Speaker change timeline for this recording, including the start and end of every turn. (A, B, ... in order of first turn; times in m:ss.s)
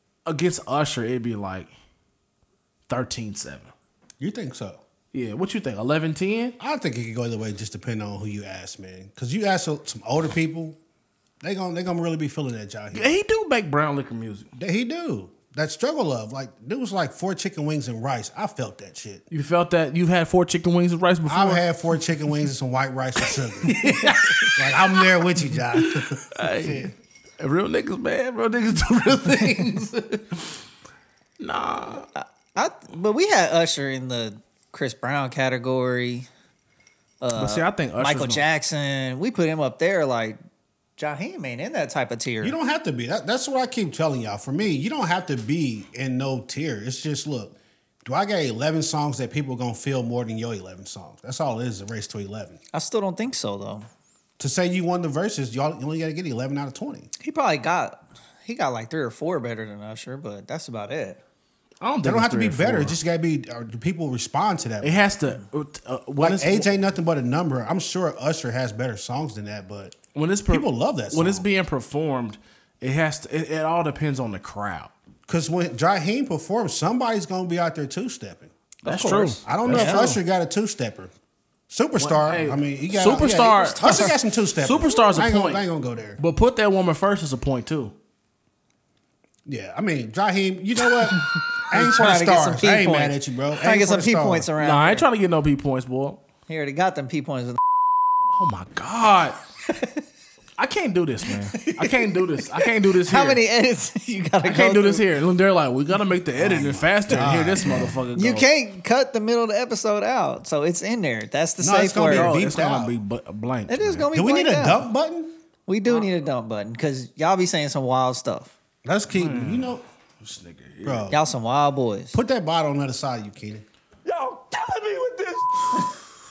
0:00.2-0:01.7 A
0:02.9-0:03.7 A
0:04.2-0:04.8 B
0:05.1-0:06.6 A
0:06.6-0:10.8 B
0:11.4-0:13.2 B
0:12.9-0:14.4 A
0:14.6-0:19.2 B
0:19.3-0:21.7 A
0:21.3-0:23.8 B
0:23.6-0:25.1 A
0:23.8-0:24.5 C
0:24.6-0:26.9 B
0:25.7-0:30.5 A
0:31.4-0:32.1 A
0:32.1-0:36.3 C
0:37.2-0:40.4 C
0:37.4-0:38.4 A
0:41.0-0:42.6 C
0:42.4-0:52.6 B
0:52.7-0:53.9 C
0:54.4-0:57.1 B
0:57.2-1:01.2 C
1:01.8-1:03.0 A
1:02.0-1:05.1 B
1:04.8-1:06.7 A
1:06.2-1:10.0 B
1:10.1-1:14.9 A
1:10.5-1:11.4 B
1:15.3-1:18.5 B
1:18.8-1:20.2 A
1:18.8-1:20.1 C
1:19.4-1:21.1 B
1:21.7-1:26.2 B
1:22.0-1:25.6 A
1:23.4-1:24.1 C
1:26.2-1:27.9 A
1:29.4-1:34.5 B
1:31.7-1:35.0 C
1:34.6-1:36.2 A
1:36.5-1:37.6 C
1:38.3-1:39.4 A
1:40.6-1:43.4 A
1:41.5-1:45.0 C
1:44.4-1:48.5 A
1:46.4-1:47.9 B
1:47.7-1:52.3 C
1:51.6-1:52.9 B
1:52.0-1:54.1 A
1:53.7-1:54.8 C
1:54.1-1:55.3 B
1:55.7-1:58.5 C
1:58.8-1:59.8 B
1:59.1-2:01.1 A
2:00.8-2:01.2 B
2:01.1-2:02.2 C
2:02.1-2:03.6 B
2:04.1-2:05.4 A